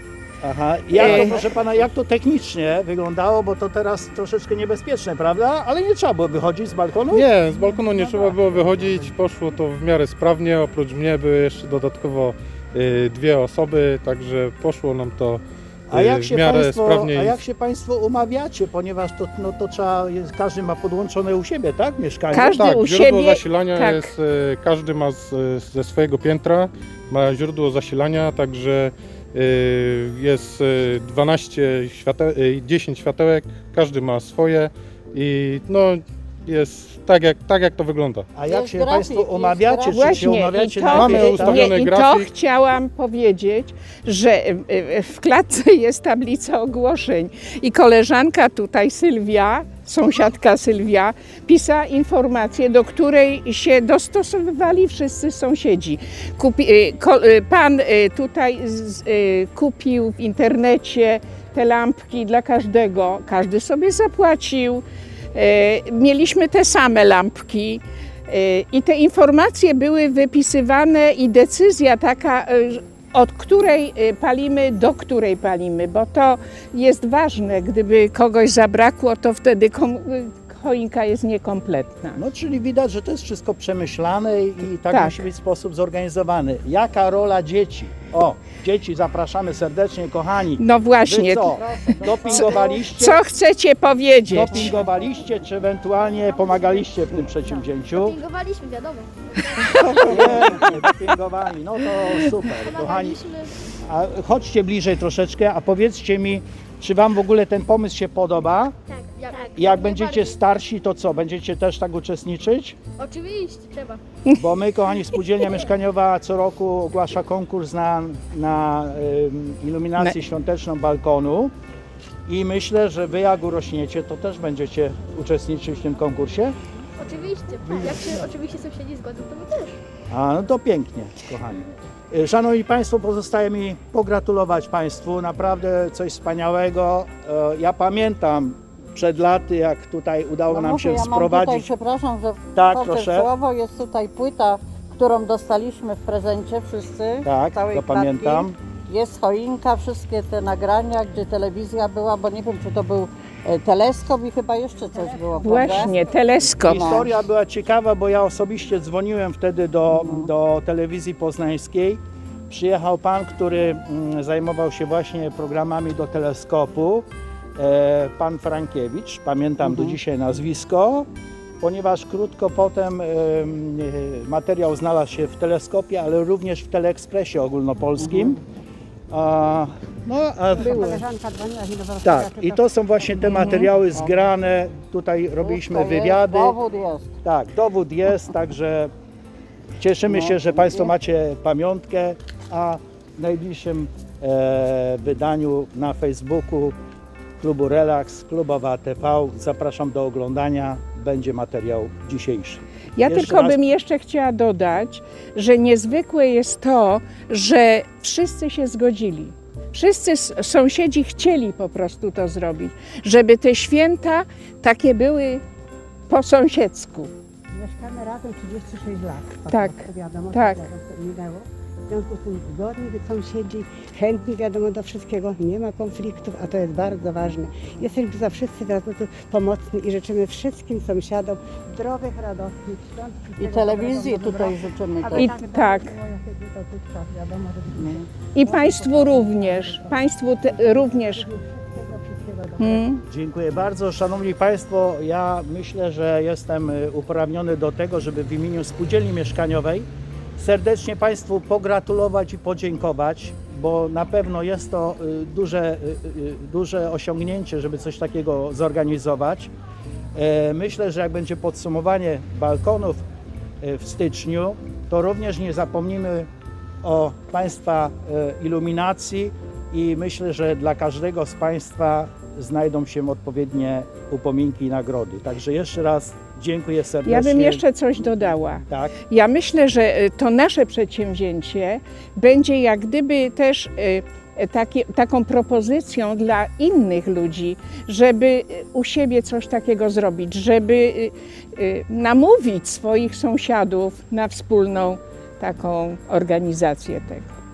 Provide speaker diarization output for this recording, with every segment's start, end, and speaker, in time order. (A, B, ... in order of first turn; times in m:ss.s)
0:00.4-0:07.3 A
0:00.9-0:01.4 B
0:07.1-0:17.4 C
0:07.8-0:08.4 D
0:15.9-0:22.7 A
0:22.3-0:24.1 B
0:22.3-0:38.3 C
0:38.3-0:41.7 A
0:38.5-0:40.3 E
0:39.9-1:22.2 B
0:40.8-0:42.3 C
1:22.2-1:33.2 A
1:24.9-1:25.2 B
1:30.6-1:31.6 B
1:31.5-1:32.8 E
1:32.2-1:34.8 B
1:34.3-1:38.2 A
1:36.4-1:36.9 F
1:37.5-1:40.6 F
1:39.6-1:40.5 B
1:40.0-1:43.2 A
1:42.6-1:43.5 F
1:43.8-1:48.8 A
1:48.9-1:50.4 F
1:49.5-1:52.8 A
1:53.0-1:54.0 F
1:54.4-2:01.5 A
2:02.3-2:06.6 A
2:07.0-2:09.8 F
2:07.6-2:08.3 A
2:10.1-2:21.7 A
2:20.5-2:37.2 E
2:22.5-2:23.3 A
2:27.2-2:28.6 A
2:34.9-2:36.0 D
2:35.4-2:36.9 B
2:36.6-2:47.0 A
2:40.0-2:40.3 E
2:47.6-2:51.1 A
2:49.6-2:50.0 E
2:51.6-2:58.4 A
2:58.0-2:58.3 E
2:59.1-3:01.1 A
3:00.5-3:04.2 D
3:02.0-3:06.6 A
3:03.2-3:03.7 B
3:05.4-3:07.2 E
3:07.2-3:08.9 A
3:09.8-3:16.8 A
3:10.1-3:10.9 E
3:17.4-3:23.7 A
3:23.0-3:35.4 B
3:36.1-3:37.1 B
3:37.5-4:02.8 D
3:39.5-3:40.7 B
3:53.4-3:55.3 E
3:55.1-3:56.0 B
3:57.8-3:58.0 E
3:58.3-4:01.3 B
4:02.6-4:03.0 B
4:03.1-4:19.5 A
4:20.1-4:23.0 A
4:23.6-4:26.3 A
4:26.8-4:38.9 A
4:37.0-4:57.3 B